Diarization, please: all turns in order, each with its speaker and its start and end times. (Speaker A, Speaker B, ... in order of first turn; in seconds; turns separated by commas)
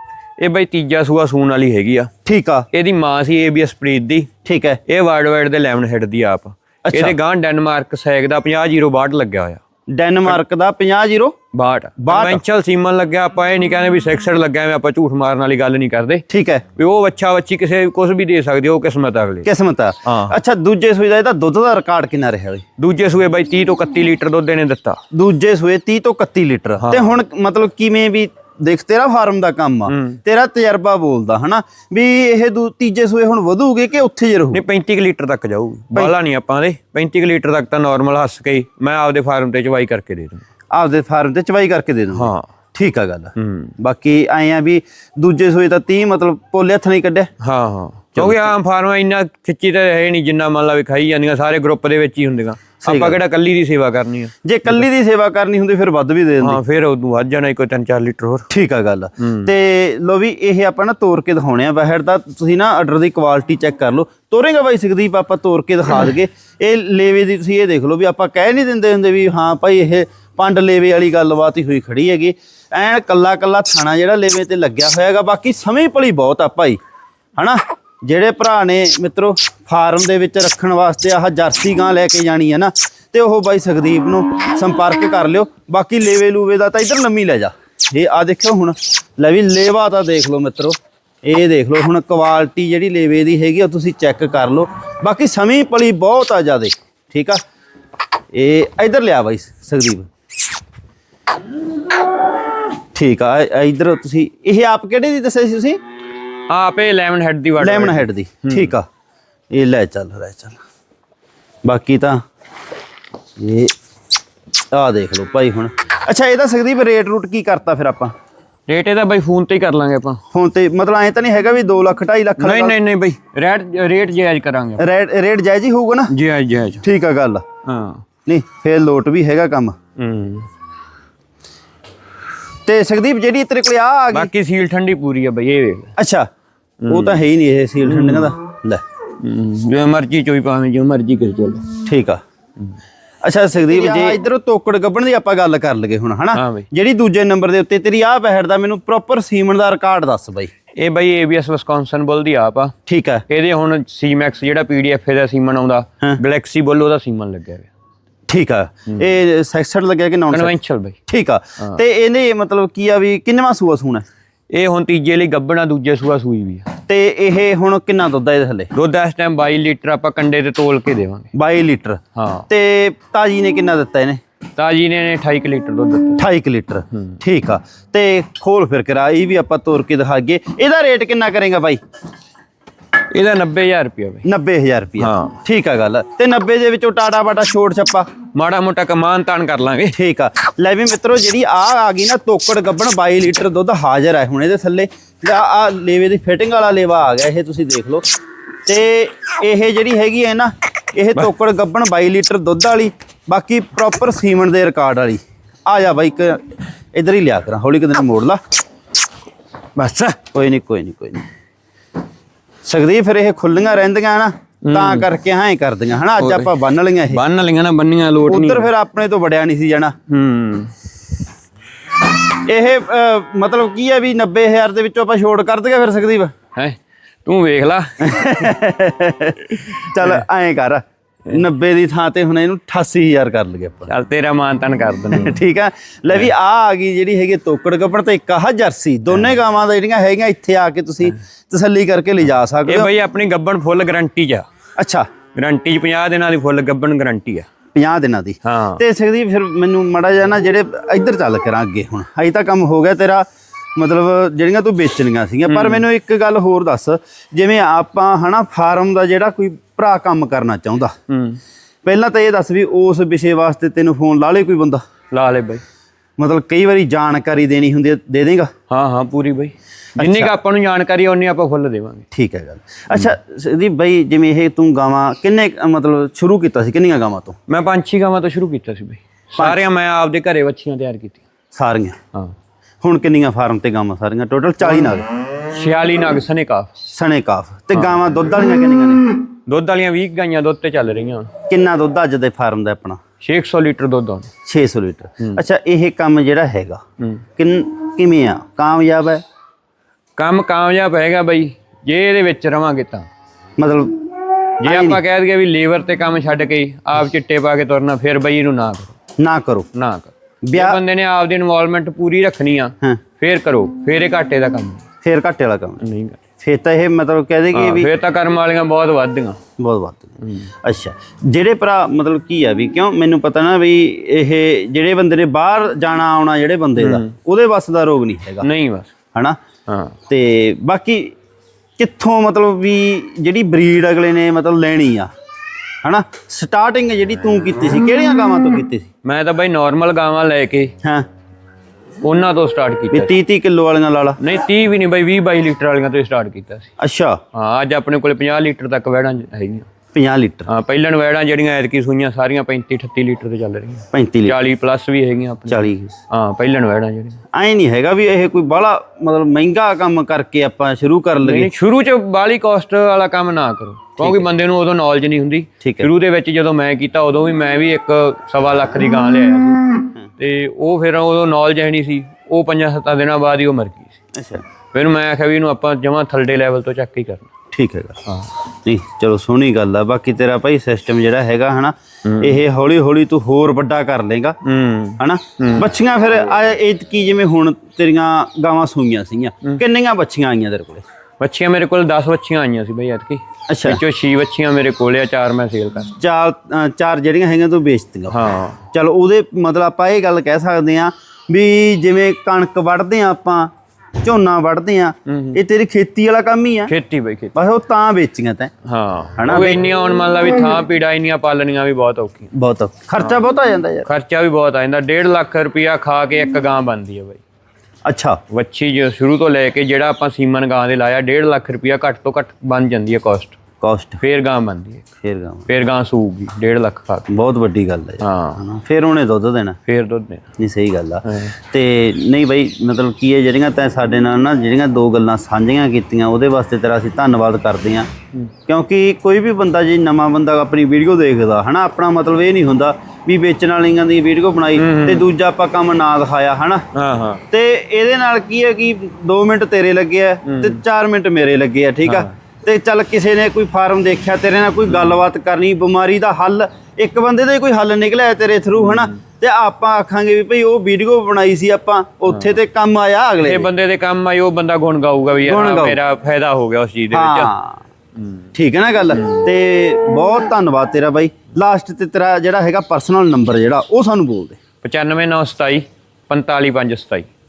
Speaker A: 0.4-2.1, Speaker B: 2.2-2.7, Speaker A: 2.7-4.3, Speaker B: 4.5-4.8, Speaker A: 4.9-9.6, Speaker B: 6.8-7.2, Speaker B: 9.9-11.4, Speaker A: 11.5-16.2, Speaker B: 12.0-12.4, Speaker B: 16.3-16.6, Speaker A: 16.8-19.5, Speaker B: 19.4-22.6, Speaker A: 20.0-20.4, Speaker A: 22.8-25.0, Speaker B: 25.1-34.6, Speaker A: 26.8-27.2, Speaker A: 29.9-30.2, Speaker A: 34.5-40.4, Speaker B: 40.7-47.3, Speaker A: 42.1-42.5, Speaker A: 43.4-43.8, Speaker A: 47.4-54.8, Speaker B: 48.2-48.5, Speaker B: 52.8-53.2, Speaker B: 54.4-56.6, Speaker A: 56.4-58.5, Speaker B: 58.5-76.8, Speaker A: 59.2-59.5, Speaker B: 77.4-97.4, Speaker B: 98.3-100.1, Speaker B: 102.9-105.8, Speaker A: 106.5-108.7, Speaker B: 107.6-108.9, Speaker B: 109.5-110.6, Speaker B: 111.7-112.2, Speaker B: 113.4-113.7, Speaker B: 114.7-118.1, Speaker A: 118.7-120.2, Speaker B: 120.3-122.8, Speaker A: 122.4-124.8, Speaker B: 124.8-126.1, Speaker A: 126.1-126.8, Speaker B: 126.8-127.4, Speaker A: 127.6-128.0, Speaker B: 128.3-129.8, Speaker A: 130.0-130.5, Speaker B: 132.7-134.3, Speaker A: 134.1-135.9, Speaker B: 136.0-136.3, Speaker A: 136.8-137.2, Speaker B: 136.9-138.8, Speaker A: 137.8-138.3, Speaker A: 139.2-141.8, Speaker B: 141.9-142.2, Speaker B: 143.2-150.5, Speaker A: 146.3-146.7, Speaker A: 150.8-152.8, Speaker B: 152.9-153.2, Speaker A: 153.3-157.7, Speaker B: 158.3-160.5, Speaker A: 160.3-161.0, Speaker B: 161.1-164.1, Speaker A: 164.5-166.7, Speaker B: 166.9-168.7, Speaker A: 168.7-171.3, Speaker B: 171.3-174.2, Speaker A: 172.1-172.5, Speaker A: 174.6-176.2, Speaker B: 176.2-181.8, Speaker A: 176.9-177.2, Speaker A: 183.1-184.2, Speaker B: 184.2-188.1, Speaker A: 185.0-185.4, Speaker A: 188.3-189.9, Speaker B: 189.9-198.0, Speaker B: 198.7-206.4, Speaker B: 206.9-208.4, Speaker A: 209.8-210.2, Speaker B: 210.3-211.3, Speaker B: 212.7-217.2, Speaker A: 214.7-215.1, Speaker A: 216.2-216.5, Speaker A: 217.1-218.7, Speaker B: 218.3-219.9, Speaker A: 220.1-220.7, Speaker B: 222.3-226.3, Speaker A: 226.6-228.5, Speaker B: 228.0-233.9, Speaker A: 233.9-235.4, Speaker B: 235.1-242.9, Speaker A: 242.7-244.5, Speaker B: 244.8-245.1, Speaker A: 245.3-247.5, Speaker B: 247.8-260.9, Speaker A: 248.4-248.8, Speaker A: 255.5-255.9, Speaker A: 261.1-261.4, Speaker B: 261.9-264.8, Speaker A: 265.1-265.6, Speaker B: 266.2-268.5, Speaker A: 268.7-272.1, Speaker B: 270.0-270.3, Speaker B: 272.1-277.4, Speaker A: 277.5-281.2, Speaker B: 279.4-279.6, Speaker B: 281.5-282.0, Speaker B: 282.8-285.1, Speaker A: 284.8-286.7, Speaker B: 286.9-289.1, Speaker A: 289.5-291.3, Speaker B: 291.5-293.0, Speaker A: 293.2-294.3, Speaker B: 294.5-296.8, Speaker B: 297.4-299.2, Speaker A: 300.2-303.1, Speaker B: 303.6-304.0, Speaker A: 304.6-308.9, Speaker B: 304.6-305.0, Speaker B: 309.2-309.7, Speaker A: 309.7-314.8, Speaker B: 310.5-310.8, Speaker B: 315.0-315.8, Speaker A: 315.8-316.2, Speaker B: 316.4-317.9, Speaker A: 317.5-319.4, Speaker B: 319.6-328.5, Speaker A: 320.2-320.5, Speaker A: 326.8-327.1, Speaker A: 328.4-328.9, Speaker A: 329.7-330.0, Speaker B: 330.1-331.1, Speaker B: 331.8-335.1, Speaker B: 335.8-338.9, Speaker A: 339.0-340.7, Speaker A: 342.0-343.1, Speaker B: 342.9-344.2, Speaker A: 344.2-346.7, Speaker B: 346.8-347.2, Speaker A: 347.3-349.7, Speaker B: 349.9-350.5, Speaker A: 350.5-357.2, Speaker B: 353.9-354.4, Speaker B: 355.5-356.0, Speaker B: 357.3-361.5, Speaker A: 361.2-373.9, Speaker B: 364.0-364.2, Speaker B: 365.6-365.9, Speaker B: 374.1-374.4, Speaker A: 374.7-377.3, Speaker B: 377.5-378.0, Speaker B: 378.6-384.4, Speaker A: 382.1-382.4, Speaker A: 384.4-385.7, Speaker B: 385.0-390.8, Speaker A: 391.2-396.0, Speaker B: 393.5-393.8, Speaker B: 396.0-398.1, Speaker A: 398.1-398.6, Speaker B: 398.7-403.5, Speaker B: 404.0-406.7, Speaker A: 405.1-405.4, Speaker A: 406.7-407.4, Speaker B: 407.4-408.5, Speaker A: 408.6-412.3, Speaker B: 409.2-409.6, Speaker B: 412.3-413.9, Speaker A: 413.9-417.2, Speaker B: 417.9-418.2, Speaker A: 418.3-423.4, Speaker B: 423.6-424.0, Speaker A: 424.0-424.9, Speaker B: 425.0-425.5, Speaker A: 425.5-427.1, Speaker B: 427.1-429.6, Speaker A: 428.0-428.4, Speaker A: 429.7-430.2, Speaker B: 430.4-437.9, Speaker A: 431.1-431.3, Speaker B: 438.5-446.6, Speaker A: 444.6-445.1, Speaker A: 446.7-447.2, Speaker B: 447.3-463.5, Speaker A: 450.2-450.6, Speaker A: 451.9-452.1, Speaker A: 458.6-459.0, Speaker A: 463.2-467.3, Speaker B: 465.3-465.8, Speaker B: 466.9-467.6, Speaker B: 468.4-474.4, Speaker A: 469.0-469.3, Speaker A: 474.6-477.1